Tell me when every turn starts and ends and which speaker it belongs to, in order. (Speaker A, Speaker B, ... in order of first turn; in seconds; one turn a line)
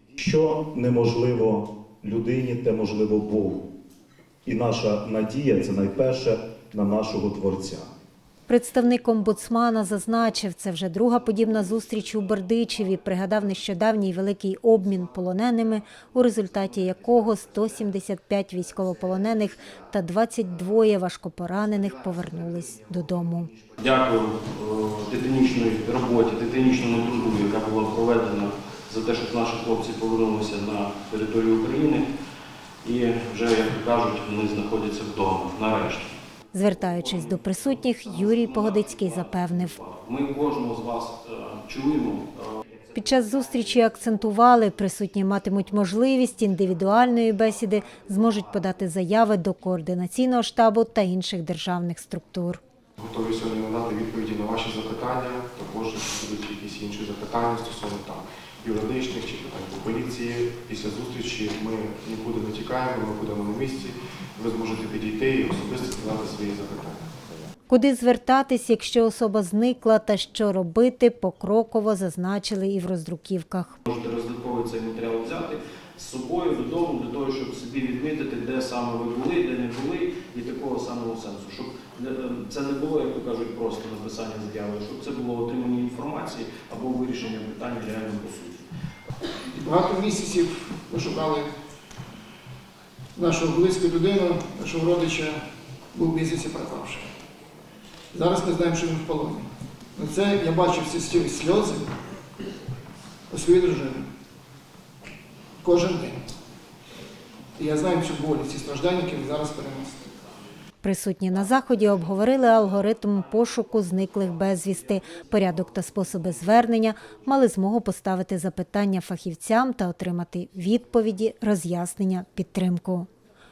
Speaker A: 0.1-3.7
Speaker A: 4.4-7.9
Speaker B: 8.5-23.5
Speaker C: 23.8-32.1
Speaker C: 32.8-36.1
Speaker B: 36.5-39.8
Speaker C: 36.9-42.6
Speaker B: 42.9-52.6
Speaker D: 53.0-67.3
Speaker B: 67.7-73.8
Speaker C: 73.8-88.7
Speaker E: 89.5-91.5
Speaker E: 93.1-95.4
Speaker E: 95.9-97.1
Speaker E: 98.1-101.9
Speaker E: 103.3-104.1
Speaker E: 105.6-106.2
Speaker E: 107.5-110.1
Speaker B: 110.8-123.1
Speaker C: 113.9-115.4